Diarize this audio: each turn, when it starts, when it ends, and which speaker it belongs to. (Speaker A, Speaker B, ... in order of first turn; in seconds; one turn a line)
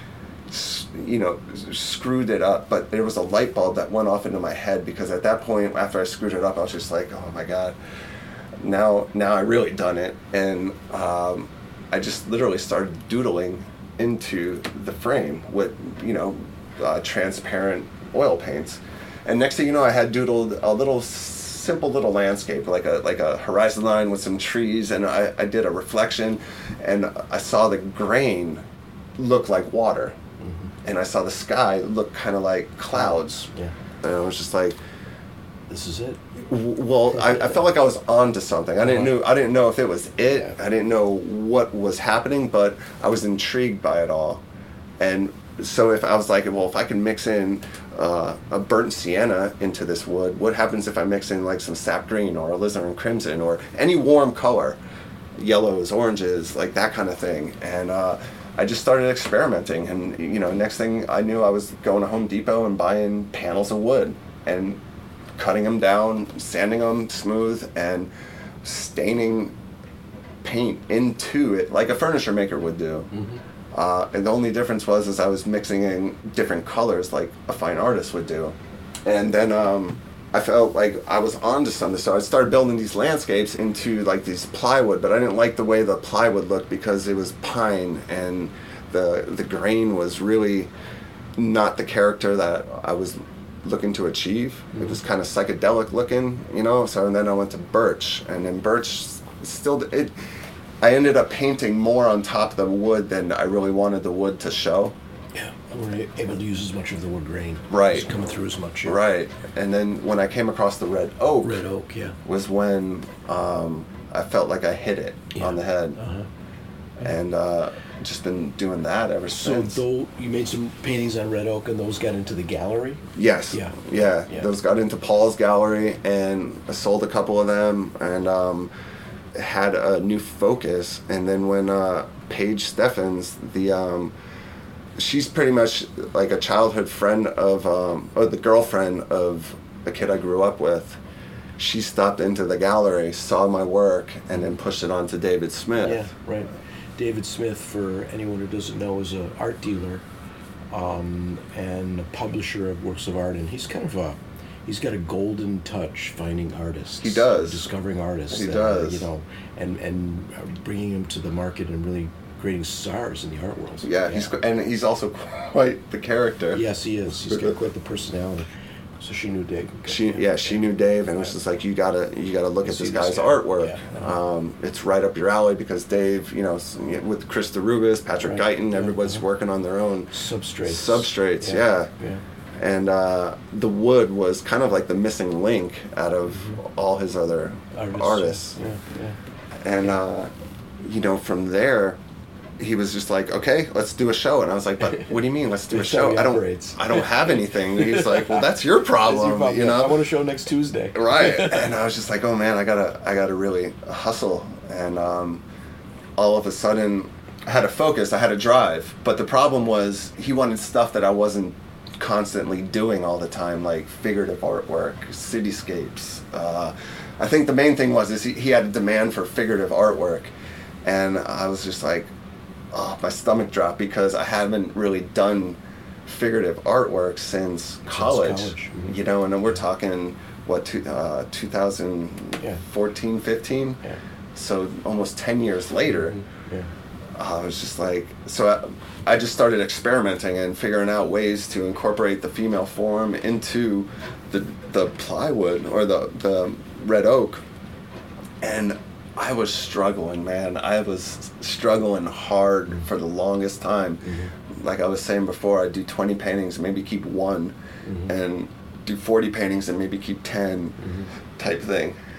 Speaker A: 0.5-7.8
Speaker A: 8.6-28.6
Speaker A: 29.2-30.2
Speaker B: 30.4-30.7
Speaker A: 30.8-33.5
Speaker B: 32.9-33.7
Speaker A: 34.0-34.8
Speaker B: 35.7-36.2
Speaker A: 36.5-44.4
Speaker B: 38.8-39.1
Speaker A: 45.0-54.8
Speaker A: 55.4-64.8
Speaker A: 65.4-68.1
Speaker A: 68.6-69.5
Speaker A: 70.4-73.1
Speaker B: 73.1-73.4
Speaker A: 73.7-90.7
Speaker A: 91.4-100.2
Speaker A: 100.8-104.9
Speaker B: 105.3-109.0
Speaker A: 107.7-108.1
Speaker A: 108.8-111.6
Speaker B: 111.4-112.2
Speaker A: 112.2-116.0
Speaker B: 115.3-116.3
Speaker A: 117.0-119.8
Speaker B: 119.3-124.5
Speaker A: 123.2-128.7
Speaker A: 129.3-134.1
Speaker A: 135.0-141.0
Speaker A: 141.6-146.1
Speaker B: 145.8-150.0
Speaker B: 150.7-164.3
Speaker A: 157.0-157.7
Speaker A: 158.3-159.1
Speaker A: 163.8-166.6
Speaker B: 166.5-168.5
Speaker B: 169.0-170.6
Speaker A: 169.9-180.1
Speaker B: 172.6-174.1
Speaker B: 178.2-179.2
Speaker B: 180.1-182.2
Speaker A: 180.6-181.9
Speaker A: 182.6-188.6
Speaker B: 186.3-186.6
Speaker B: 187.7-189.2
Speaker A: 189.6-192.0
Speaker A: 192.6-200.0
Speaker B: 195.7-198.4
Speaker B: 199.0-201.7
Speaker A: 200.9-205.4
Speaker A: 206.2-220.3
Speaker A: 220.8-222.1
Speaker A: 222.7-233.8
Speaker B: 227.9-229.0
Speaker A: 234.3-236.2
Speaker B: 235.9-236.7
Speaker A: 237.1-247.4
Speaker A: 248.4-257.6
Speaker B: 254.0-254.3
Speaker B: 257.8-258.1
Speaker A: 258.1-260.8
Speaker B: 260.8-261.1
Speaker A: 261.3-262.0